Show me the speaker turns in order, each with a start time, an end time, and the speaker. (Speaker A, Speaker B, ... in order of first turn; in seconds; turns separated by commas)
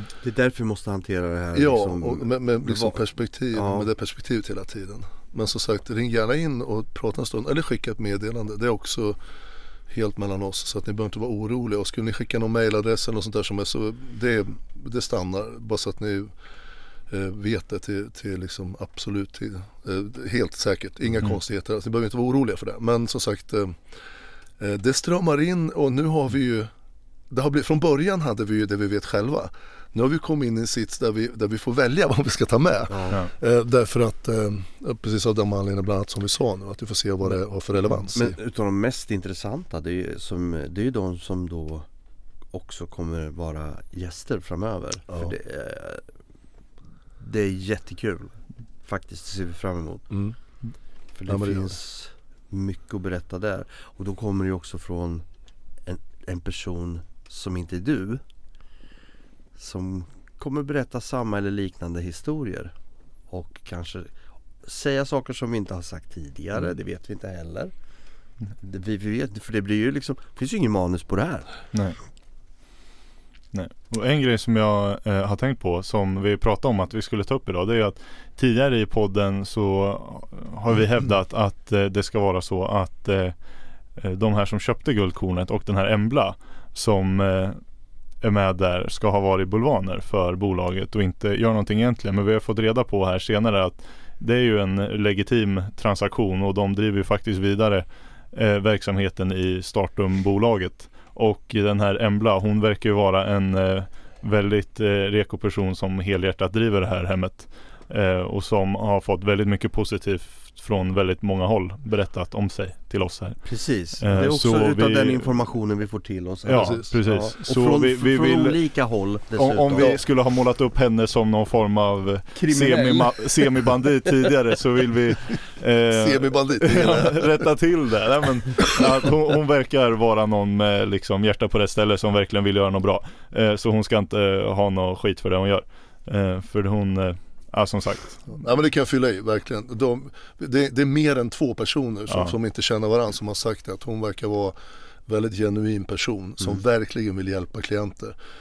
Speaker A: 0.2-3.0, Speaker B: 1.5-9.2, Speaker A: 3.5-3.9, Speaker B: 9.9-16.3, Speaker B: 17.1-23.8, Speaker B: 24.6-26.7, Speaker B: 27.3-38.4, Speaker A: 32.9-33.2, Speaker A: 38.1-41.9, Speaker A: 42.5-46.0, Speaker A: 47.2-50.1, Speaker B: 50.1-50.4, Speaker A: 51.1-55.2, Speaker B: 51.3-51.7, Speaker A: 55.9-58.2, Speaker A: 59.6-62.7, Speaker A: 63.3-64.1, Speaker A: 64.6-67.7, Speaker A: 68.6-71.5, Speaker C: 73.5-83.4, Speaker C: 84.0-87.6, Speaker C: 88.2-113.4, Speaker A: 113.4-120.0, Speaker C: 114.0-115.3, Speaker C: 116.4-118.6, Speaker B: 116.5-117.0, Speaker C: 119.4-138.2, Speaker A: 122.3-123.5, Speaker B: 125.9-127.4, Speaker B: 138.3-144.6, Speaker C: 142.1-142.3, Speaker B: 145.1-148.2